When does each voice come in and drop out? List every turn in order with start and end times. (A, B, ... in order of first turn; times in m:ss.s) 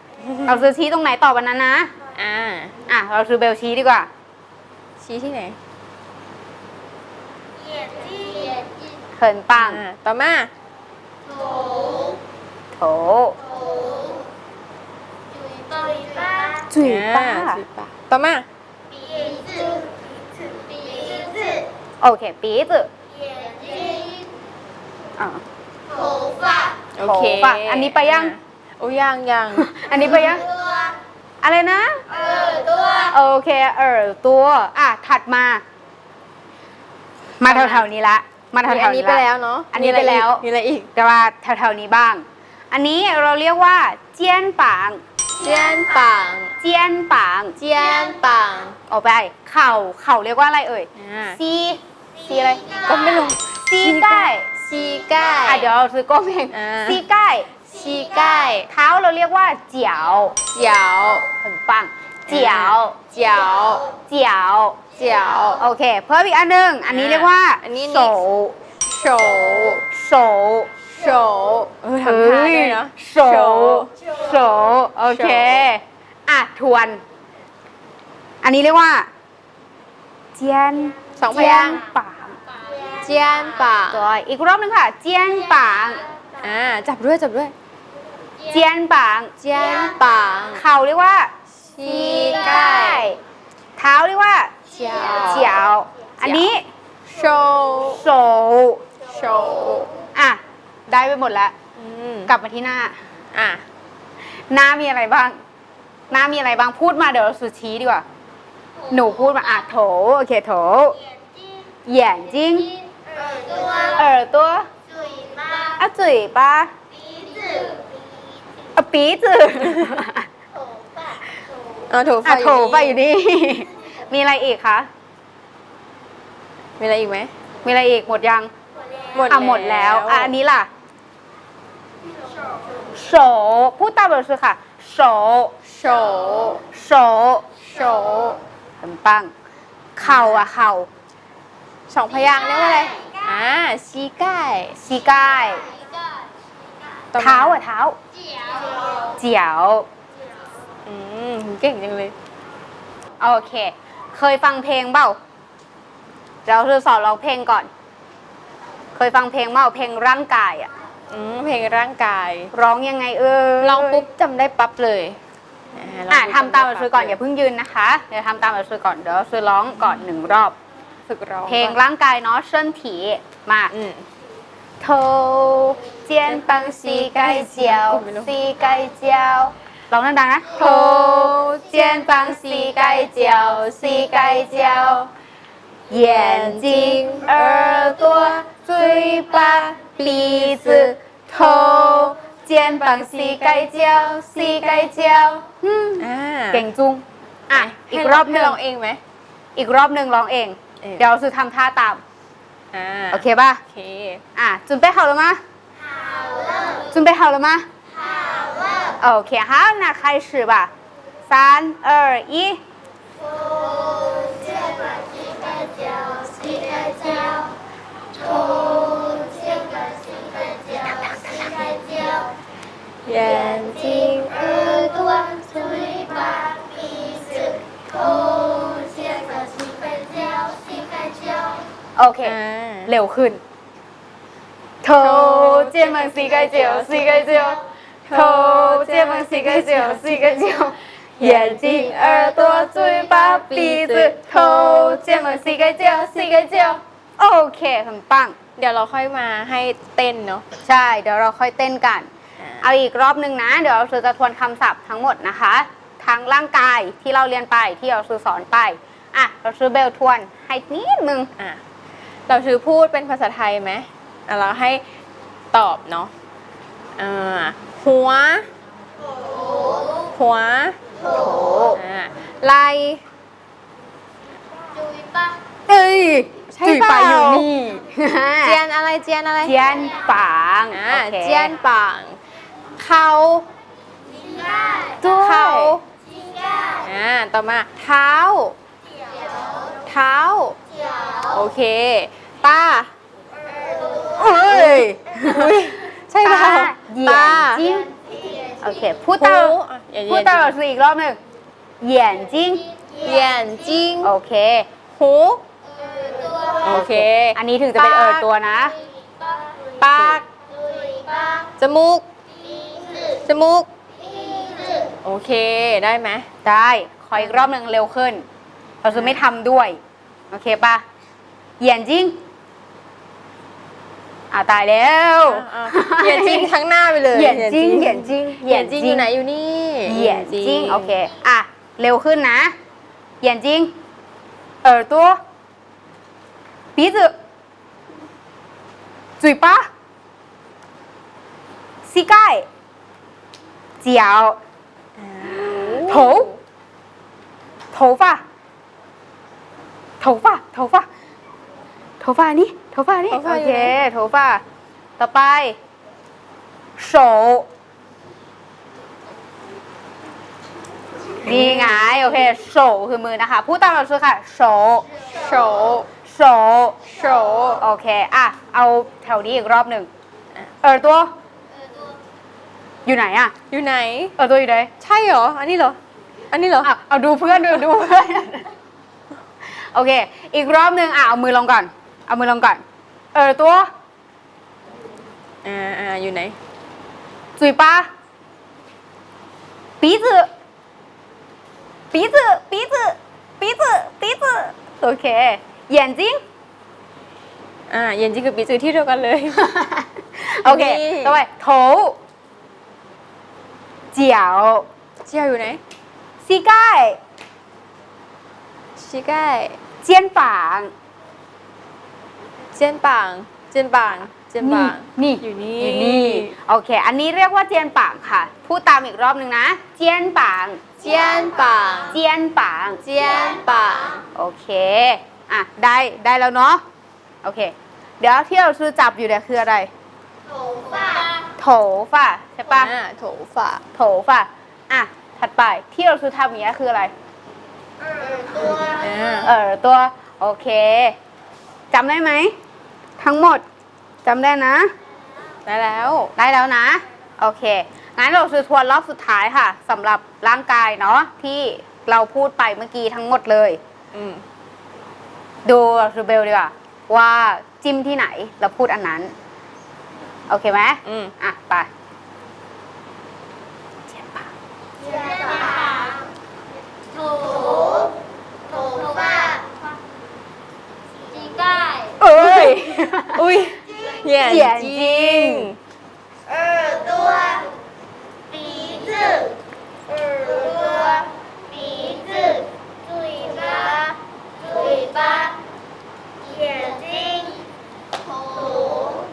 0:00.2-0:00.6 A
0:00.4-0:01.9 B
0:02.1-0:02.7 A
0:02.9-0:04.1 B
0:05.0-0:05.6 A
0:07.9-0:08.6 C
0:09.2-0:09.8 B
0:09.5-0:10.5 A
0:12.7-0:13.4 B
0:15.7-0:16.6 C
0:16.7-0:17.6 B
0:16.8-0:18.4 A
0:19.1-0:19.8 C
0:20.8-0:21.6 C
0:22.0-0:22.9 B
0:23.4-0:24.2 C
0:26.0-0:26.6 C
0:27.0-0:29.8 A
0:27.0-0:28.3 B
0:29.5-0:30.5 B
0:31.4-0:32.0 B
0:32.4-0:32.9 C
0:33.0-0:35.6 B
0:37.4-0:40.4 B
0:37.4-0:37.8 A
0:38.6-0:40.9 A
0:40.9-0:45.0 B
0:45.4-0:46.5 A
0:46.6-0:47.6 B
0:47.6-0:48.8 A
0:48.9-0:52.6 B
0:51.0-0:51.4 A
0:52.7-0:55.7 A
0:53.7-0:54.4 B
0:55.4-0:57.5 B
0:56.5-0:57.0 A
0:57.7-0:58.7 A
0:58.7-1:00.4 B
1:00.5-1:01.3 A
1:01.4-1:03.0 B
1:02.3-1:03.9 A
1:04.1-1:04.8 B
1:05.0-1:05.6 A
1:05.5-1:08.6 B
1:06.8-1:08.2 A
1:08.9-1:09.8 A
1:09.9-1:10.7 B
1:10.9-1:13.9 A
1:12.0-1:17.0 B
1:15.1-1:15.7 A
1:18.4-1:19.1 B
1:20.3-1:22.4 B
1:21.2-1:21.8 A
1:22.9-1:24.0 A
1:23.9-1:26.1 B
1:26.4-1:27.5 A
1:28.5-1:29.3 B
1:29.4-1:30.6 A
1:30.5-1:33.2 B
1:31.7-1:33.1 A
1:33.8-1:34.5 B
1:34.7-1:35.6 A
1:35.1-1:36.6 B
1:36.2-1:36.5 A
1:37.1-1:38.0 A
1:37.9-1:38.8 B
1:39.1-1:39.9 A
1:40.1-1:41.5 B
1:41.8-1:42.3 A
1:42.3-1:43.0 B
1:43.3-1:43.6 A
1:44.5-1:45.4 B
1:46.1-1:48.0 B
1:48.9-1:51.0 B
1:51.9-1:52.7 B
1:53.2-1:53.8 C
1:53.8-1:54.7 B
1:55.0-1:55.8 C
1:55.8-1:56.7 B
1:57.2-1:57.8 C
1:58.8-2:00.3 B
2:01.9-2:03.0 A
2:02.2-2:04.9 B
2:06.8-2:07.3 A
2:07.6-2:08.5 B
2:09.1-2:10.3 A
2:09.3-2:10.7 B
2:12.9-2:15.5 B
2:15.7-2:16.6 A
2:16.7-2:17.4 B
2:17.6-2:18.4 A
2:18.8-2:19.3 B
2:20.0-2:20.9 B
2:20.0-2:20.5 A
2:21.9-2:24.8 A
2:24.8-2:25.7 B
2:27.1-2:27.6 A
2:27.2-2:28.0 B
2:29.2-2:29.9 B
2:30.9-2:32.1 A
2:33.2-2:35.2 B
2:36.4-2:37.7 B
2:39.0-2:40.7 B
2:41.1-2:42.5 A
2:42.5-2:44.0 B
2:43.6-2:45.2 A
2:45.8-2:47.2 A
2:46.1-2:50.6 B
2:51.1-2:51.8 A
2:51.5-2:53.7 B
2:53.7-2:54.1 A
2:54.8-3:00.8 B
2:56.2-2:58.4 A
3:00.5-3:05.1 A
3:02.3-3:03.1 B
3:05.9-3:08.0 B
3:05.9-3:15.4 A
3:08.8-3:11.0 B
3:12.8-3:13.7 B
3:15.5-3:18.6 B
3:16.0-3:16.7 A
3:17.5-3:19.0 A
3:19.6-3:22.0 B
3:22.7-3:24.2 A
3:23.1-3:23.6 B
3:24.3-3:25.4 B
3:26.1-3:26.7 C
3:26.9-3:27.6 B
3:29.0-3:30.7 B
3:31.3-3:32.6 B
3:33.6-3:37.5 C
3:38.3-3:40.5 C
3:41.1-3:41.5 B
3:41.7-3:42.2 C
3:43.1-3:46.3 A
3:46.2-3:47.4 C
3:47.9-3:51.6 C
3:52.0-3:53.4 B
3:52.2-3:52.9 A
3:54.8-4:05.5 B
3:54.8-4:00.4 A
4:01.2-4:06.8 A
4:07.2-4:08.3 B
4:08.6-4:10.4 A
4:10.6-4:12.1 B
4:12.6-4:21.3 B
4:22.3-4:24.8 A
4:25.5-4:26.1 A
4:27.0-4:28.5 A
4:30.1-4:30.8 A
4:31.1-4:31.8 B
4:31.8-4:33.0 A
4:34.8-4:35.1 C
4:35.7-4:38.6 B
4:36.5-4:37.5 A
4:38.4-4:39.6 A
4:39.4-4:41.6 B
4:40.7-4:42.2 A
4:42.8-4:43.5 A
4:44.4-4:44.9 C
4:45.0-4:45.8 B
4:45.0-4:45.8 A
4:46.4-4:46.7 C
4:46.8-4:48.6 A
4:49.8-4:50.6 A
4:51.3-4:52.9 A
4:54.2-4:55.6 B
4:54.2-4:57.7 A
4:56.2-4:57.9 B
4:58.6-5:01.2 B
4:59.2-5:00.6 A
5:01.8-5:02.7 B
5:03.0-5:04.1 A
5:04.0-5:04.7 B
5:05.0-5:05.4 A
5:05.9-5:06.5 C
5:06.6-5:08.3 A
5:06.7-5:08.8 B
5:09.8-5:10.2 A
5:10.6-5:11.4 C
5:11.6-5:12.0 A
5:12.6-5:13.0 C
5:13.2-5:13.7 A
5:14.2-5:14.8 C
5:15.0-5:16.3 A
5:16.4-5:18.2 B
5:17.2-5:17.5 A
5:18.8-5:19.8 B
5:18.9-5:19.2 A
5:20.3-5:20.8 B
5:21.6-5:22.2 B
5:24.3-5:26.5 B
5:25.3-5:30.9 A
5:27.1-5:29.1 B
5:29.9-5:32.5 B
5:33.2-5:33.7 B
5:34.6-5:35.2 B
5:36.8-5:37.1 B
5:39.2-5:39.6 B
5:41.9-5:42.4 B
5:43.8-5:44.4 B
5:45.0-5:46.4 A
5:45.8-5:46.3 B
5:47.7-5:48.2 B
5:50.0-5:50.9 B
5:52.0-5:54.4 B
5:53.1-5:53.8 A
5:55.0-5:55.6 B
5:56.8-5:57.5 B
6:01.2-6:04.9 B
6:01.2-6:01.9 A
6:05.1-6:05.9 A
6:06.1-6:06.8 B
6:06.8-6:07.6 A
6:07.6-6:09.9 B
6:10.6-6:11.1 B
6:12.8-6:13.3 B
6:13.5-6:14.2 A
6:14.2-6:14.7 B
6:14.8-6:15.8 A
6:16.3-6:16.7 A
6:16.6-6:18.5 B
6:19.6-6:22.6 B
6:23.1-6:23.7 B
6:25.4-6:26.4 A
6:27.4-6:27.9 B
6:29.8-6:30.3 B
6:31.9-6:36.2 B
6:37.7-6:39.4 A
6:39.3-6:42.0 B
6:40.4-6:41.2 A
6:43.9-6:44.7 B
6:45.0-6:45.6 A
6:46.2-6:47.0 B
6:48.8-6:49.6 A
6:49.8-6:50.7 B
6:52.5-6:56.3 A
6:54.4-7:00.6 B
7:00.8-7:02.0 A
7:01.9-7:02.8 B
7:02.8-7:04.0 A
7:04.2-7:06.6 B
7:07.2-7:09.7 B
7:10.8-7:11.0 C
7:11.4-7:12.7 B
7:12.5-7:13.6 A
7:13.7-7:16.9 B
7:18.6-7:19.3 A
7:19.2-7:21.0 B
7:21.7-7:22.3 B
7:23.0-7:23.4 B
7:24.0-7:24.7 B
7:25.4-7:26.1 A
7:26.2-7:33.6 B
7:33.9-7:34.2 A
7:35.4-7:39.1 B
7:40.3-7:41.7 B
7:40.8-7:41.1 A
7:43.9-7:44.3 B
7:45.3-7:45.6 C
7:47.1-7:47.8 C
7:48.7-7:49.4 C
7:51.2-7:51.9 C
7:52.0-7:53.2 B
7:52.1-7:55.6 A
7:54.2-7:55.5 B
7:56.6-7:57.4 C
7:58.4-7:59.2 C
8:00.2-8:01.1 C
8:01.6-8:02.4 C
8:03.1-8:03.9 C
8:04.5-8:05.3 C
8:06.4-8:07.4 C
8:08.3-8:08.8 C